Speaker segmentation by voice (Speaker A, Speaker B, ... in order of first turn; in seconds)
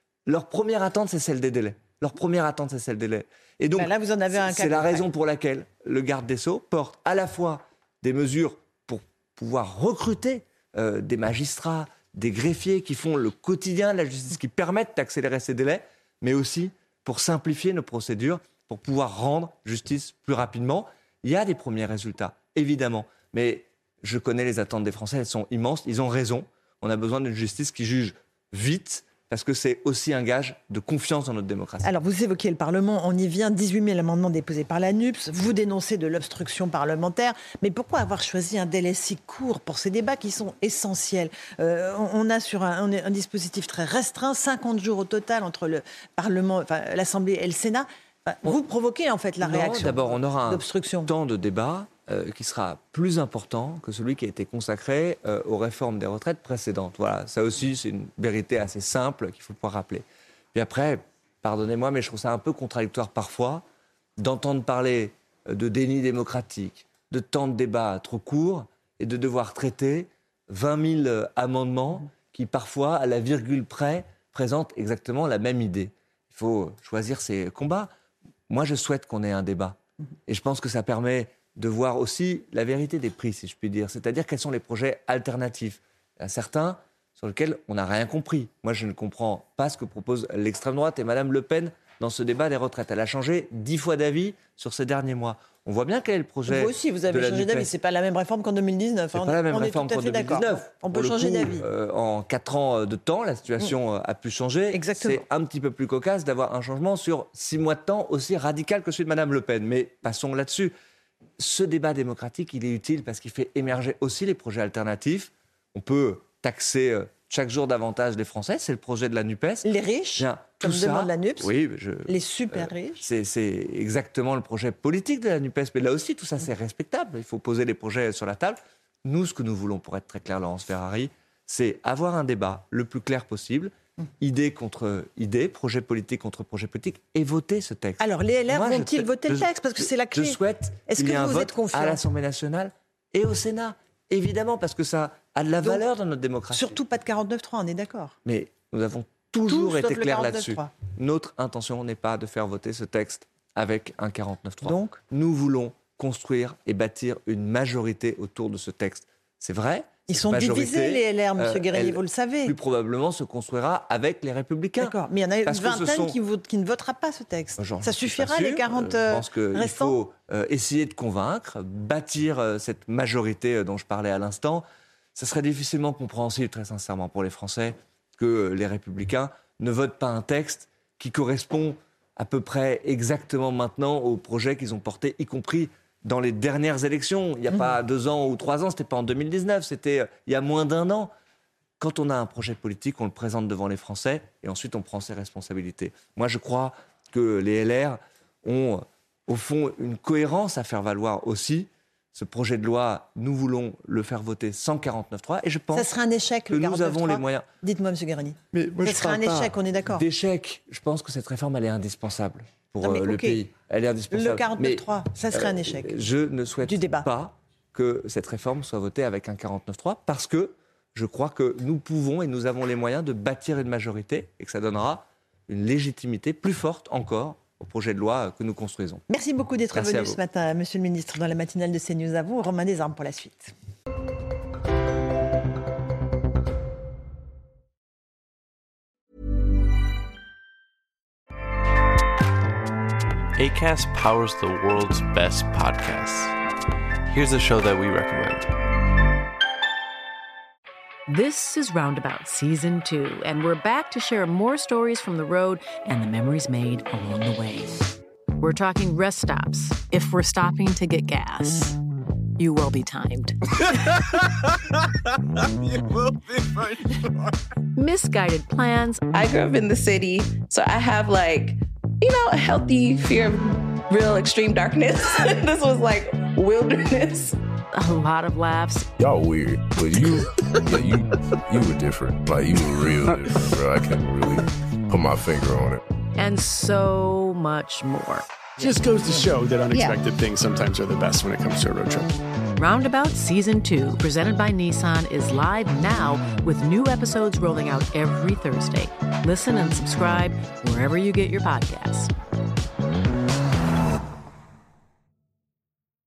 Speaker A: 0.3-31.9, 49.4-63.6, 64.2-77.9, 78.5-97.7, 99.2-110.7, 111.4-146.8, 148.2-166.2, 167.6-174.6, 175.2-191.1, 191.8-205.9, 206.5-207.4, 208.5-229.1, 229.7-230.2
Speaker B: 3.8-5.0, 31.8-51.1, 96.5-101.7, 104.7-105.2, 119.6-121.5, 122.0-123.0, 138.0-142.0, 146.5-148.2, 149.5-150.7, 154.6-155.0, 160.1-162.6, 164.8-170.0, 205.7-210.0, 212.8-213.4, 214.1-216.0, 216.6-217.1, 229.1-233.5
Speaker C: 243.4-246.3, 247.1-248.5
Speaker D: 251.1-261.8, 262.4-263.4, 267.8-269.1, 277.7-278.9, 286.1-288.2, 292.6-302.1
Speaker E: 269.1-277.4
Speaker F: 279.0-285.8
Speaker G: 288.6-292.1